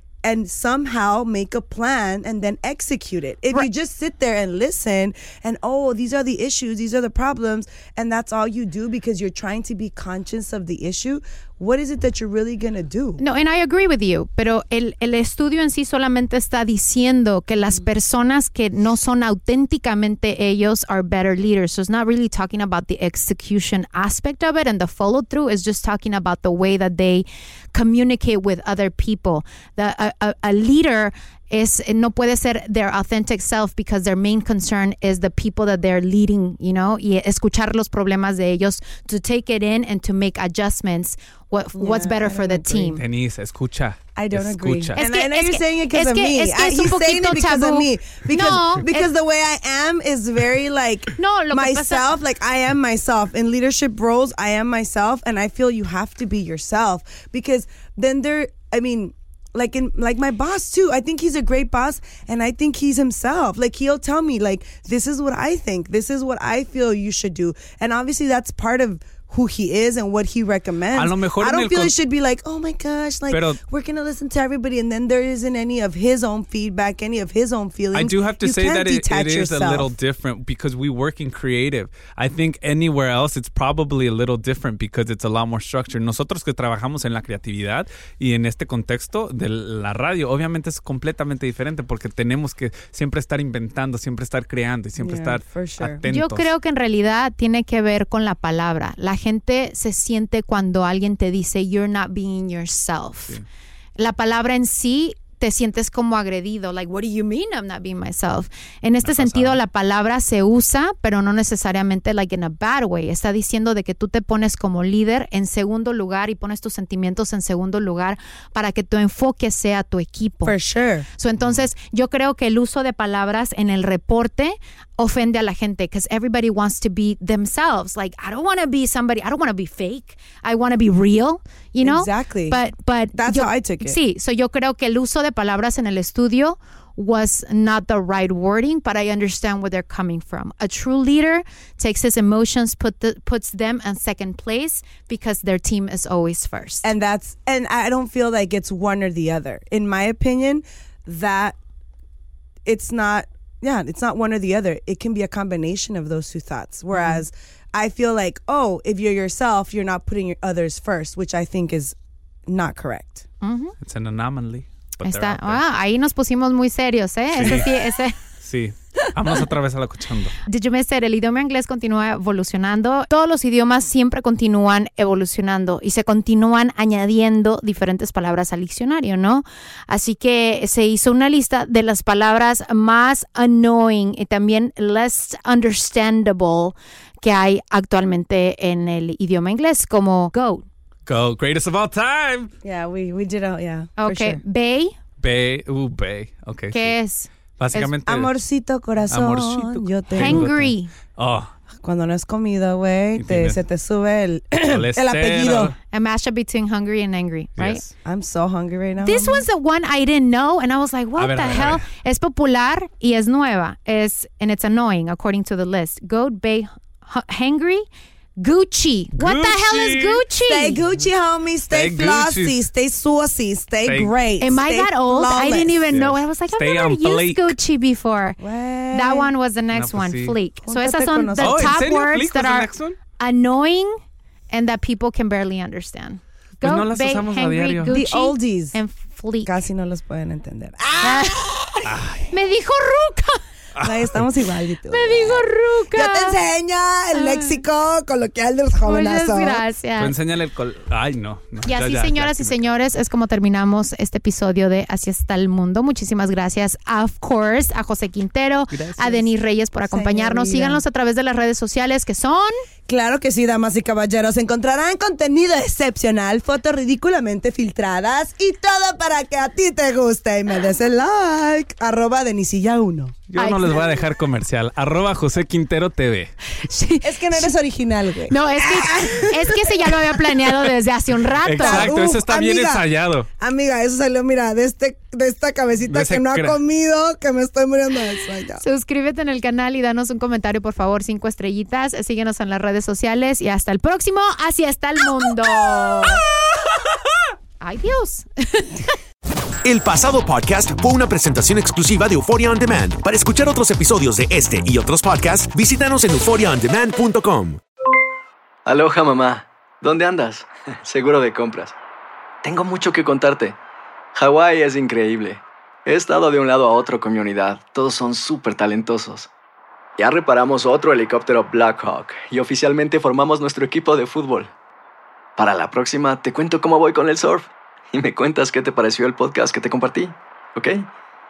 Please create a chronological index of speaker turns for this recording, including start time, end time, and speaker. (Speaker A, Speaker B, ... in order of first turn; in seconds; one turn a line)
Speaker A: 0.2-13.2
Speaker B: 13.2-43.0
Speaker A: 41.8-43.0
Speaker C: 43.0-45.0
Speaker A: 44.2-79.9
Speaker B: 45.0-49.1
Speaker B: 51.2-52.1
Speaker C: 71.0-71.9
Speaker C: 73.3-73.6
Speaker C: 77.9-96.5
Speaker A: 95.0-96.0
Speaker B: 96.1-103.4
Speaker B: 104.0-120.5
Speaker C: 109.0-109.6
Speaker A: 120.4-121.1
Speaker B: 121.2-146.9
Speaker A: 131.8-132.6
Speaker A: 133.1-134.0
Speaker A: 146.8-151.6
Speaker A: 152.7-162.0
Speaker A: 162.5-163.2
Speaker B: 163.4-163.7
Speaker C: 163.8-165.6
Speaker B: 165.0-168.2
Speaker C: 167.3-167.7
Speaker C: 168.4-170.3
Speaker B: 170.5-190.7
Speaker C: 191.1-192.5
Speaker A: 192.6-194.4
Speaker B: 194.0-194.9
Speaker C: 195.2-197.0
Speaker B: 196.7-197.9
Speaker C: 197.6-198.3
Speaker A: 197.8-200.5
Speaker C: 199.1-201.5
Speaker B: 200.2-200.9
Speaker A: 201.8-205.8
Speaker C: 203.2-203.6
Speaker C: 204.6-205.8
Speaker B: 205.9-207.8
Speaker C: 207.6-207.9
Speaker A: 208.1-209.5
Speaker B: 209.0-217.9
Speaker C: 211.2-211.8
Speaker B: 218.4-220.8
Speaker C: 219.2-220.2
Speaker A: 220.5-225.9
Speaker C: 221.7-222.6
Speaker C: 223.9-224.1
Speaker B: 224.4-228.4
Speaker C: 225.9-227.6
Speaker A: 228.4-229.3
Speaker B: 228.9-234.0
Speaker C: 229.7-230.4
Speaker A: 230.6-231.9
Speaker C: 231.4-233.0
Speaker B: 234.5-239.5
Speaker C: 236.6-238.0
Speaker A: 237.9-238.8
Speaker A: 239.4-242.0
Speaker B: 241.0-241.5
Speaker C: 241.9-242.2
Speaker B: 242.3-243.4
Speaker C: 243.8-244.2
Speaker A: 243.8-249.6
Speaker B: 244.9-246.4
Speaker B: 247.2-247.6
Speaker B: 248.8-250.1
Speaker C: 250.0-252.7
Speaker B: 251.7-262.5
Speaker A: 258.8-259.3
Speaker A: 259.9-260.8
Speaker A: 262.9-273.2
Speaker C: 273.3-276.3
Speaker B: 273.4-273.8
Speaker B: 276.6-277.5
Speaker A: 277.0-280.6
Speaker B: 278.3-282.0
Speaker C: 281.4-283.3
Speaker A: 281.4-282.9
Speaker A: 283.4-288.6
Speaker C: 285.9-286.6
Speaker B: 288.6-296.2
Speaker B: 297.6-298.8
Speaker D: 299.6-307.6
Speaker E: 308.7-311.8
Speaker E: 312.4-313.6
Speaker E: 314.1-319.3
Speaker E: 320.0-324.5
Speaker E: 325.4-330.9